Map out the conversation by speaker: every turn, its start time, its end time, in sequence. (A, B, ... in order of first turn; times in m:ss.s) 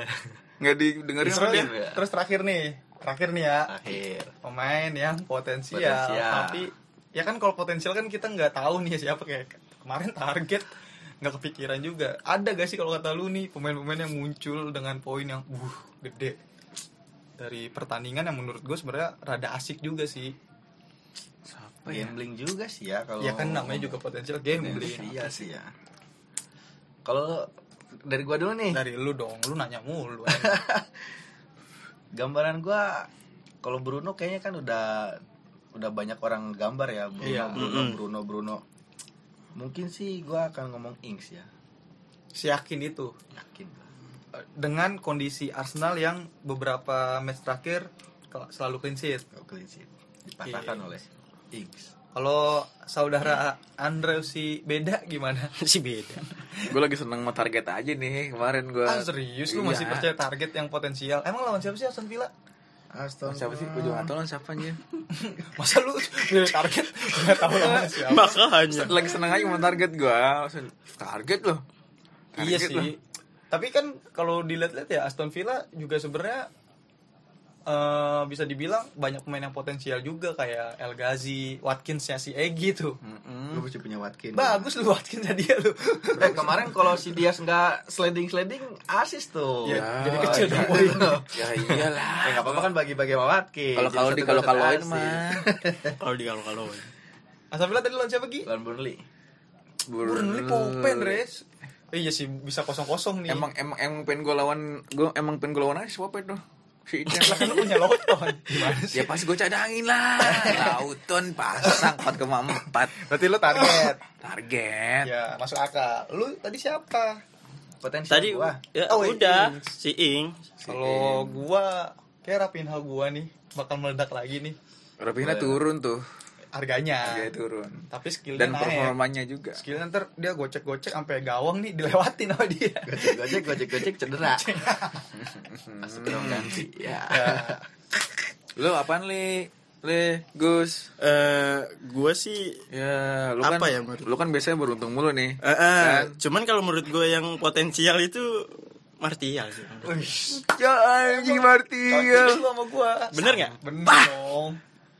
0:00.6-0:01.7 A
0:01.2-0:03.7 B
0:01.4-0:02.0 C
0:03.7-0:04.3 C
0:04.4-0:10.7 B
0:05.7-0:06.7 C
0:11.2-0:16.4 B
0:17.4-0:20.3 B
0:21.5-0:22.2 A
0:21.9-0:25.7 C
0:23.2-0:25.3 B
0:27.0-0:27.5 C
0:28.0-0:28.8 C
0:28.7-0:30.6 B
0:30.3-0:31.0 C
0:32.1-0:33.1 C
0:33.6-0:35.2 C
0:35.7-0:38.6 C
0:37.2-0:37.6 B
0:37.6-0:38.0 D
0:39.6-0:41.5 C
0:42.3-0:43.1 B
0:43.3-0:43.9 C
0:44.4-0:49.2 B
0:49.3-0:51.9 C
0:50.4-0:50.8 B
0:52.1-0:55.5 B
0:55.6-0:56.3 D
0:56.4-0:56.7 B
0:56.7-1:00.1 A
0:58.8-1:02.3 B
1:02.9-1:04.1 C
1:03.2-1:04.8 A
1:05.1-1:08.5 B
1:07.5-1:07.8 A
1:07.5-1:08.9 D
1:08.7-1:11.6 A
1:12.4-1:12.9 A
1:12.4-1:13.0 B
1:13.5-1:16.5 B
1:17.7-1:23.0 B
1:23.0-1:23.6 A
1:23.5-1:24.7 C
1:24.3-1:26.8 B
1:26.2-1:36.0 C
1:29.6-1:31.3 B
1:29.7-1:32.7 A
1:33.8-1:35.4 A
1:36.0-1:36.9 D
1:37.5-1:38.5 B
1:38.4-1:39.0 C
1:39.9-1:41.2 A
1:40.0-1:43.4 B
1:43.3-1:55.1 A
1:47.1-1:49.2 B
1:50.2-1:50.8 B
1:51.6-1:51.9 B
1:53.0-1:54.0 B
1:55.0-1:57.2 B
1:57.8-1:58.6 C
1:58.1-2:00.4 D
1:58.9-1:59.7 B
2:00.6-2:04.6 B
2:05.0-2:06.0 A
2:05.2-2:05.6 C
2:06.5-2:07.3 B
2:07.0-2:07.8 A
2:07.9-2:08.9 B
2:08.4-2:09.6 A
2:09.6-2:15.1 B
2:12.8-2:14.5 C
2:15.2-2:16.6 A
2:15.8-2:17.6 C
2:17.1-2:17.6 B
2:18.6-2:20.9 A
2:21.0-2:22.6 D
2:22.7-2:26.2 A
2:23.4-2:24.1 D
2:25.4-2:30.1 D
2:29.9-2:30.4 B
2:30.3-2:32.4 A
2:31.0-2:34.6 B
2:33.1-2:34.1 D